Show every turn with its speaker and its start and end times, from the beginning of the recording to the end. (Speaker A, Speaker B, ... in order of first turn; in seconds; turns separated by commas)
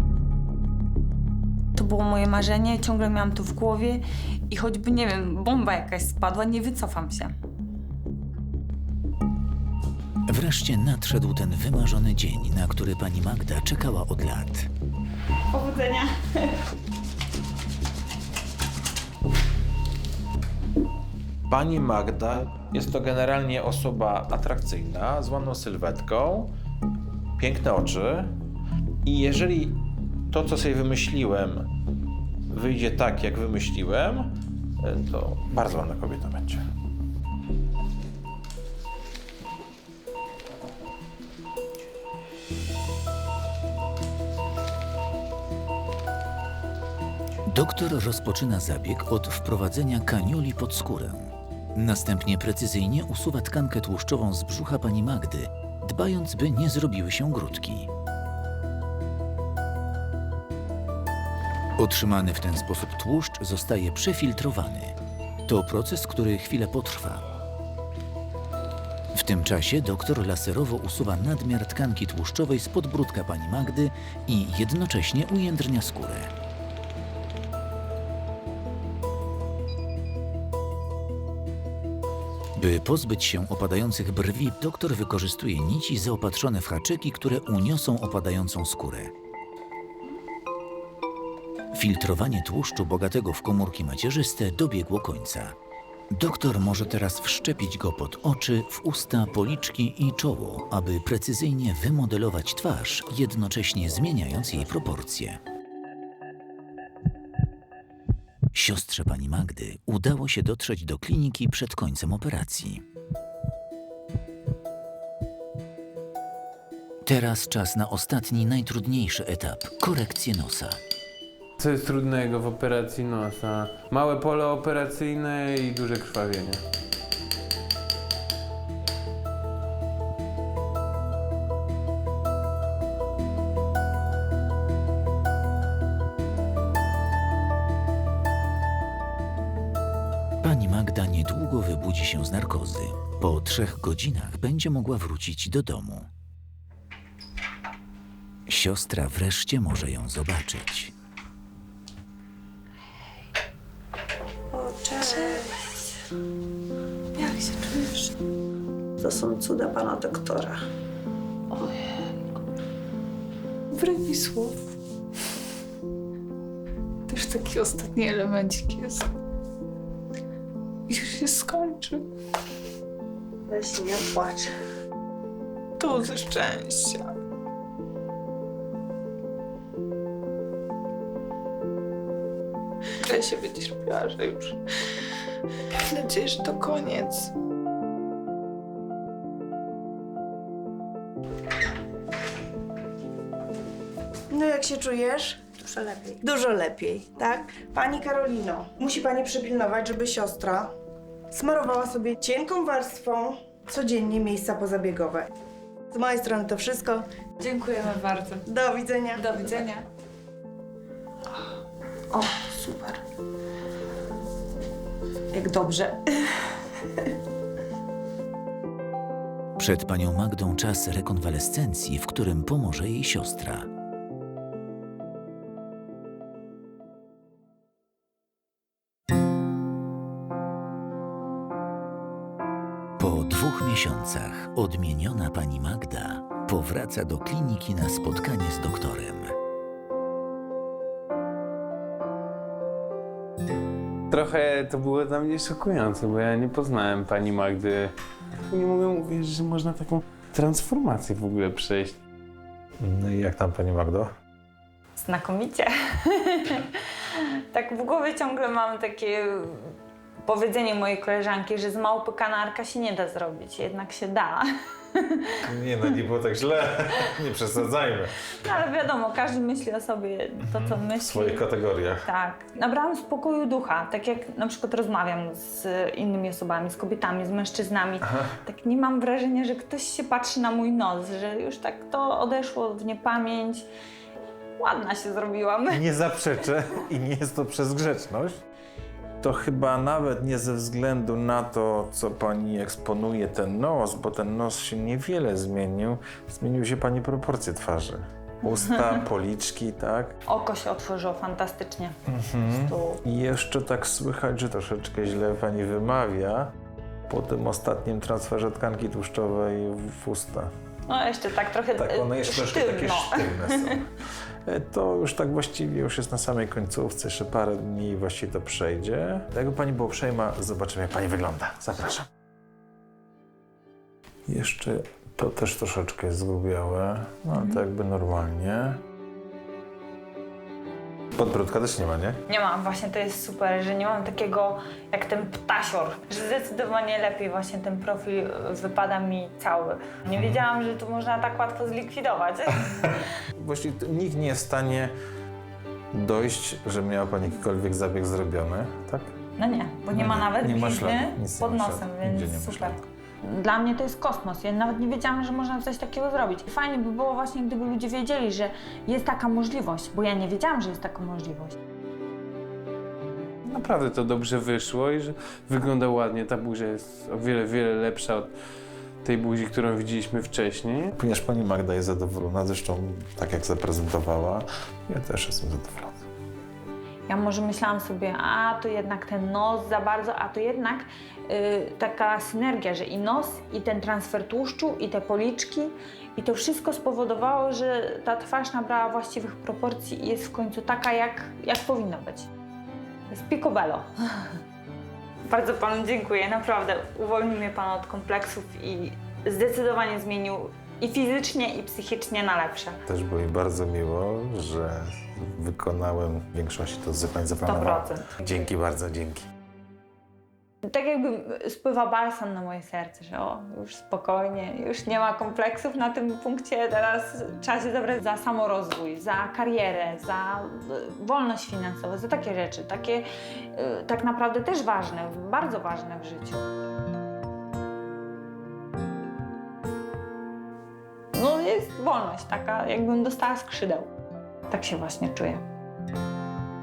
Speaker A: 1.7-7.3, Speaker B: 10.2-14.7, Speaker A: 15.5-16.6, Speaker C: 21.5-26.5, Speaker C: 27.4-28.3, Speaker C: 29.0-29.8, Speaker C: 30.3-31.7, Speaker C: 32.5-36.6, Speaker B: 47.5-57.9, Speaker B: 61.8-67.2, Speaker B: 69.1-76.3, Speaker B: 82.5-89.1, Speaker B: 91.7-95.5, Speaker B: 96.1-105.4, Speaker B: 108.5-112.8, Speaker B: 117.0-120.8, Speaker D: 121.6-126.6, Speaker B: 140.4-146.1, Speaker B: 148.5-150.9, Speaker A: 154.9-155.6, Speaker E: 155.0-155.4, Speaker E: 157.2-158.1, Speaker F: 159.0-160.6, Speaker E: 161.5-161.8, Speaker E: 163.7-164.7, Speaker E: 167.1-169.1, Speaker E: 170.9-172.1, Speaker F: 173.5-174.5, Speaker E: 175.8-177.1, Speaker E: 183.0-184.6, Speaker E: 185.9-187.3, Speaker F: 194.3-200.7, Speaker F: 201.3-205.3, Speaker F: 205.9-207.1, Speaker E: 207.4-208.4, Speaker F: 208.4-209.3, Speaker E: 209.3-209.8, Speaker A: 212.1-213.0, Speaker A: 215.3-216.4, Speaker B: 219.6-223.7, Speaker B: 233.0-239.3, Speaker D: 244.1-247.9, Speaker D: 248.5-252.0, Speaker C: 252.8-254.1, Speaker A: 255.0-265.4, Speaker C: 265.4-268.3, Speaker A: 268.4-271.5, Speaker C: 270.4-272.1, Speaker A: 272.0-283.7, Speaker C: 278.0-278.3, Speaker A: 284.6-285.8, Speaker C: 285.7-288.4, Speaker C: 289.2-300.1, Speaker A: 300.3-302.0, Speaker C: 302.1-306.5, Speaker A: 302.5-303.0, Speaker C: 307.1-310.5, Speaker A: 310.9-313.8, Speaker C: 311.7-313.9, Speaker C: 314.4-322.1, Speaker C: 324.3-328.8, Speaker C: 331.1-332.2, Speaker A: 332.3-343.0, Speaker C: 340.1-340.4, Speaker C: 342.7-344.9, Speaker C: 345.9-349.1, Speaker A: 349.4-361.6, Speaker C: 349.9-352.8, Speaker D: 363.4-368.3, Speaker D: 369.0-370.9, Speaker C: 370.9-376.1, Speaker A: 377.1-392.3, Speaker A: 393.1-394.4, Speaker A: 395.3-402.8, Speaker C: 402.9-409.3, Speaker A: 407.4-408.5, Speaker A: 410.6-426.4, Speaker A: 431.1-433.9, Speaker A: 434.5-435.4